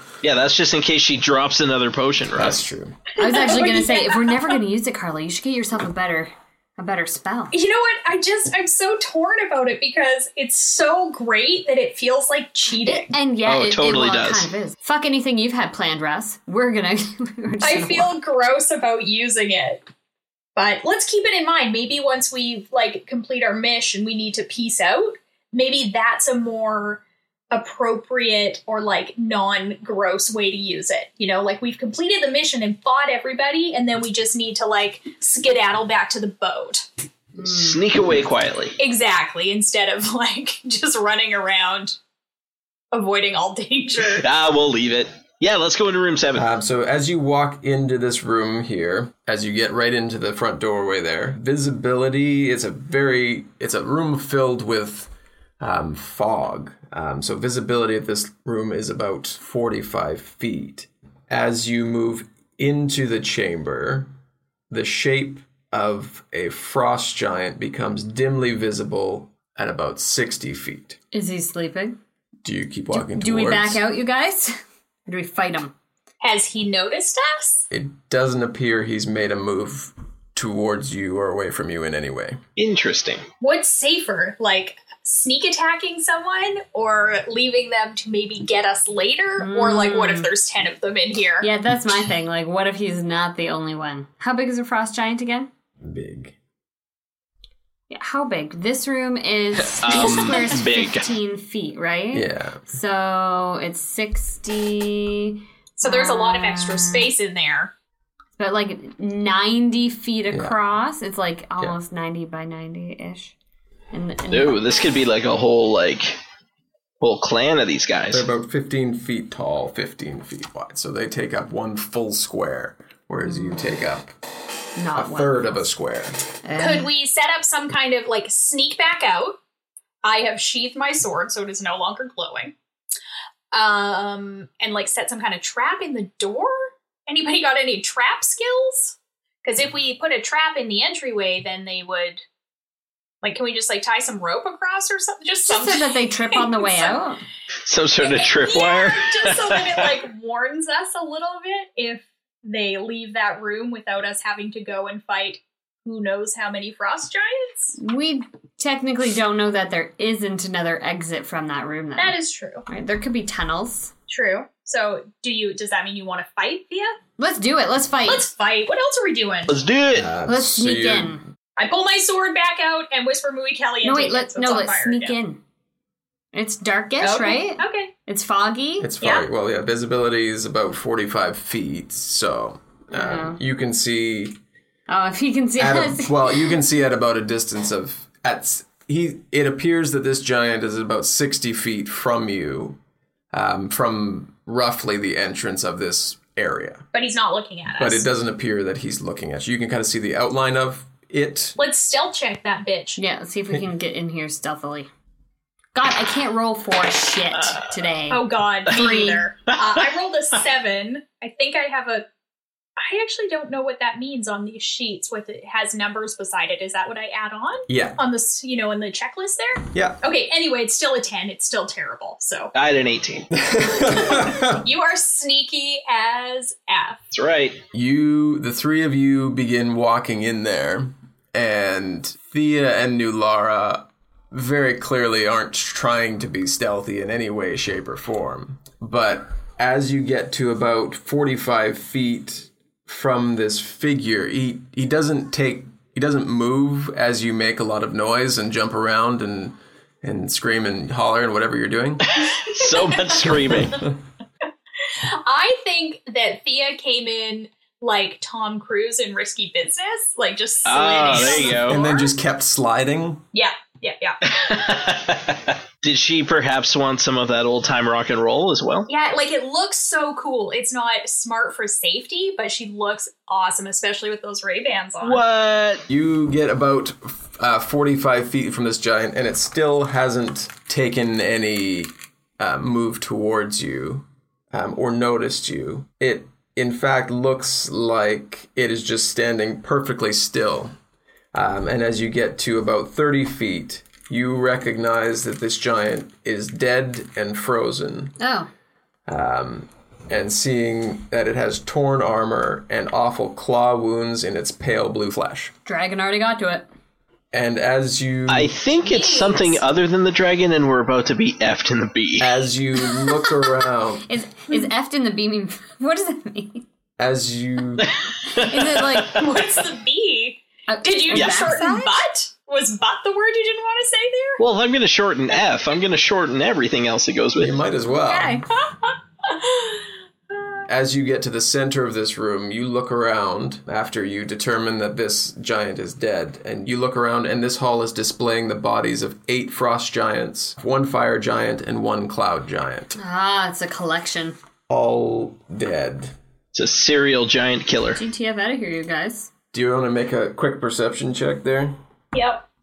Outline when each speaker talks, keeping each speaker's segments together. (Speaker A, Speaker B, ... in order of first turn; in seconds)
Speaker A: 0.2-2.6, 13.4-14.5, 37.4-38.8, 44.1-46.5, 82.6-83.2, 99.8-101.1, 114.3-116.2, 117.0-118.2, 147.7-150.0, 169.5-170.1, 222.5-223.3, 227.1-227.6, 252.2-253.8, 260.6-261.8, 264.3-268.9, 275.0-275.9, 308.3-312.3, 317.8-319.2, 321.1-321.4, 324.4-327.6, 346.5-348.0
Speaker B: 2.3-3.0, 46.3-64.1, 64.7-71.0, 72.4-73.8, 77.7-82.4, 95.8-96.3, 102.1-102.6, 110.3-110.6, 118.1-124.1, 124.9-126.2, 169.9-171.2, 178.8-184.4, 185.6-192.8, 193.3-196.8, 197.8-201.6, 217.7-218.0, 219.7-220.0, 223.3-224.7, 227.7-252.0, 253.3-253.9, 261.5-263.2, 275.9-290.7, 291.3-298.1, 299.1-305.5, 307.3-308.6, 312.2-314.1, 317.0-317.9, 327.4-328.4, 330.7-343.0, 344.7-346.1, 349.5-351.8
Speaker C: 3.2-7.5, 12.8-18.1, 37.4-37.8, 71.1-72.0, 72.9-75.7, 89.4-90.3, 91.4-95.5, 97.9-107.1, 108.4-113.3, 113.9-114.7, 123.2-123.7, 124.8-125.6, 126.5-126.9, 145.4-147.2, 157.8-162.2, 162.7-163.9, 167.2-168.3, 170.2-171.2, 173.8-175.4, 176.3-178.9, 182.9-183.4, 184.9-186.1, 203.0-204.9, 205.7-209.3, 298.2-298.5, 305.6-306.7, 314.1-316.6, 318.4-319.2, 320.7-322.0, 328.1-328.4, 343.0-344.4, 348.0-349.3
Speaker D: 3.2-4.6, 7.5-13.1, 17.6-19.8, 20.5-36.9, 38.8-42.0, 42.9-44.2, 76.2-77.7, 83.4-91.5, 105.8-107.7, 126.5-129.4, 130.0-132.5, 133.5-142.2, 143.2-147.0, 148.0-157.8, 162.0-162.7, 164.1-166.9, 168.0-169.5, 171.6-175.2, 177.0-177.9, 179.0-179.2, 196.9-198.0, 201.6-203.0, 208.1-212.1, 212.8-222.5, 224.6-227.0, 255.1-262.1, 263.3-264.3, 268.9-275.2, 308.8-309.6, 319.1-324.4, 328.7-329.8, 352.1-352.4